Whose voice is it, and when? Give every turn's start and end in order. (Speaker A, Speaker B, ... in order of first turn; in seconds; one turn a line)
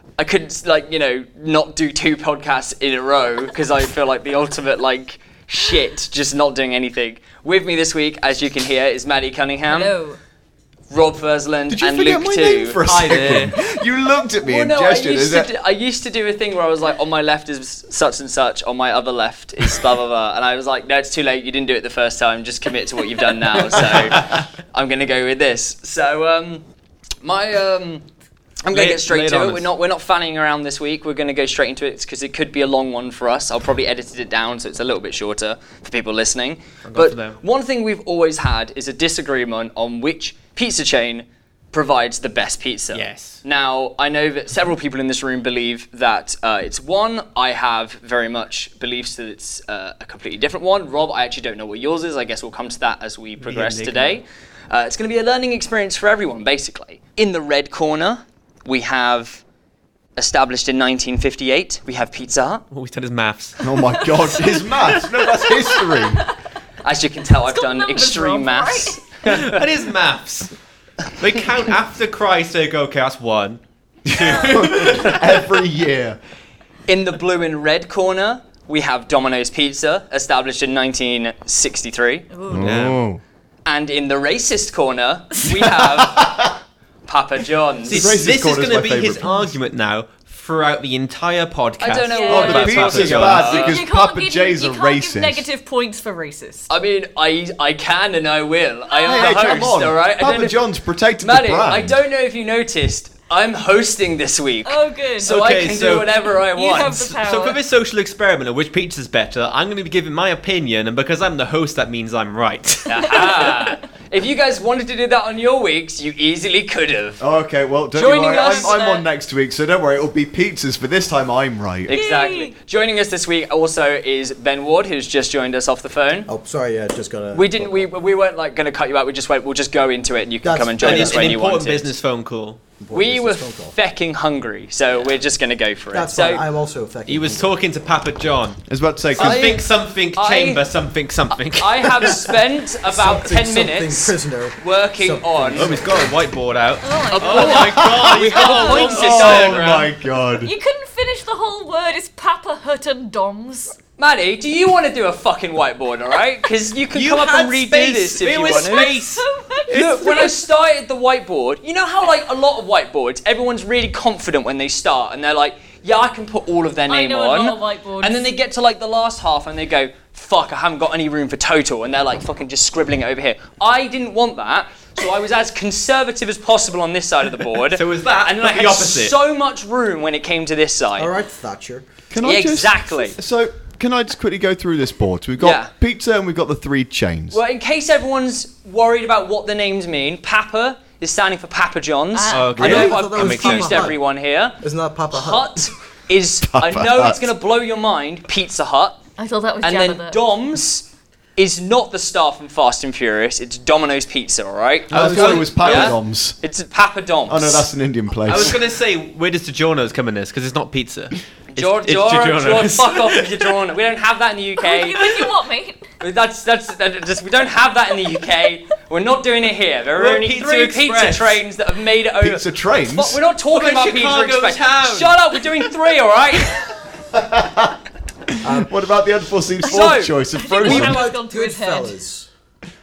Speaker A: 0.2-10.0
Speaker B: 9.7-10.2
Speaker A: 10.9-13.4
Speaker C: 11.7-15.5
Speaker D: 12.8-13.5
Speaker A: 14.4-26.6
Speaker A: 27.2-28.1
Speaker A: 28.6-59.4
Speaker D: 28.7-29.7
Speaker D: 36.8-37.4
Speaker D: 42.9-43.4
Speaker D: 53.4-54.2
Speaker A: 60.2-62.6
Speaker D: 62.7-63.6
Speaker B: 63.6-66.3
Speaker C: 63.6-66.2
Speaker A: 66.8-69.3
Speaker B: 67.4-69.2
Speaker D: 69.2-70.5
Speaker D: 71.2-73.6
Speaker C: 74.0-76.2
Speaker D: 74.1-75.5
Speaker A: 76.9-82.3
Speaker B: 82.3-82.8
Speaker C: 82.5-83.2
Speaker D: 82.6-83.0
Speaker A: 83.7-86.3
Speaker C: 85.6-86.6
Speaker A: 87.1-88.2
Speaker D: 87.9-93.7
Speaker C: 87.9-89.5
Speaker A: 91.8-93.8
Speaker B: 92.1-96.7
Speaker C: 92.3-95.5
Speaker A: 96.7-100.7
Speaker B: 98.9-99.7
Speaker C: 99.0-102.0
Speaker A: 101.2-107.1
Speaker B: 104.6-105.3
Speaker D: 105.2-106.2
Speaker B: 106.3-107.6
Speaker D: 106.8-113.5
Speaker A: 112.8-117.2
Speaker B: 113.0-113.7
Speaker C: 117.2-121.9
Speaker A: 117.9-118.9
Speaker B: 118.4-119.0
Speaker A: 121.9-126.3
Speaker B: 121.9-122.5
Speaker E: 126.3-127.9
Speaker A: 127.3-131.9
Speaker E: 130.4-131.4
Speaker D: 130.8-132.6
Speaker E: 132.8-133.8
Speaker A: 132.9-136.4
Speaker B: 134.9-135.2
Speaker E: 135.9-137.6
Speaker D: 137.1-138.6
Speaker C: 138.7-139.5
Speaker D: 139.1-142.2
Speaker A: 139.2-140.6
Speaker A: 141.5-145.9
Speaker E: 142.9-146.2
Speaker D: 145.6-149.7
Speaker B: 146.8-149.3
Speaker A: 147.1-149.9
Speaker C: 147.4-148.2
Speaker C: 148.9-150.5
Speaker B: 150.3-153.8
Speaker A: 154.0-158.9
Speaker D: 156.9-160.3
Speaker B: 158.4-160.4
Speaker A: 159.7-181.1
Speaker B: 166.9-168.3
Speaker D: 177.7-179.2
Speaker E: 181.0-181.9
Speaker C: 182.1-187.4
Speaker A: 182.2-183.2
Speaker A: 185.4-185.7
Speaker A: 187.3-199.0
Speaker B: 192.1-193.1
Speaker D: 192.3-193.9
Speaker E: 192.6-194.0
Speaker E: 194.6-195.7
Speaker C: 196.4-197.3
Speaker B: 199.2-200.2
Speaker A: 199.6-207.7
Speaker D: 204.9-206.0
Speaker C: 204.9-206.4
Speaker C: 207.3-208.6
Speaker D: 208.2-213.5
Speaker A: 211.5-215.3
Speaker B: 214.6-215.9
Speaker A: 216.0-226.6
Speaker D: 219.9-221.4
Speaker C: 222.2-223.2
Speaker D: 223.5-225.2
Speaker C: 227.1-227.8
Speaker E: 228.4-228.7
Speaker C: 228.5-231.1
Speaker A: 229.7-230.1
Speaker B: 229.7-232.0
Speaker E: 230.6-232.3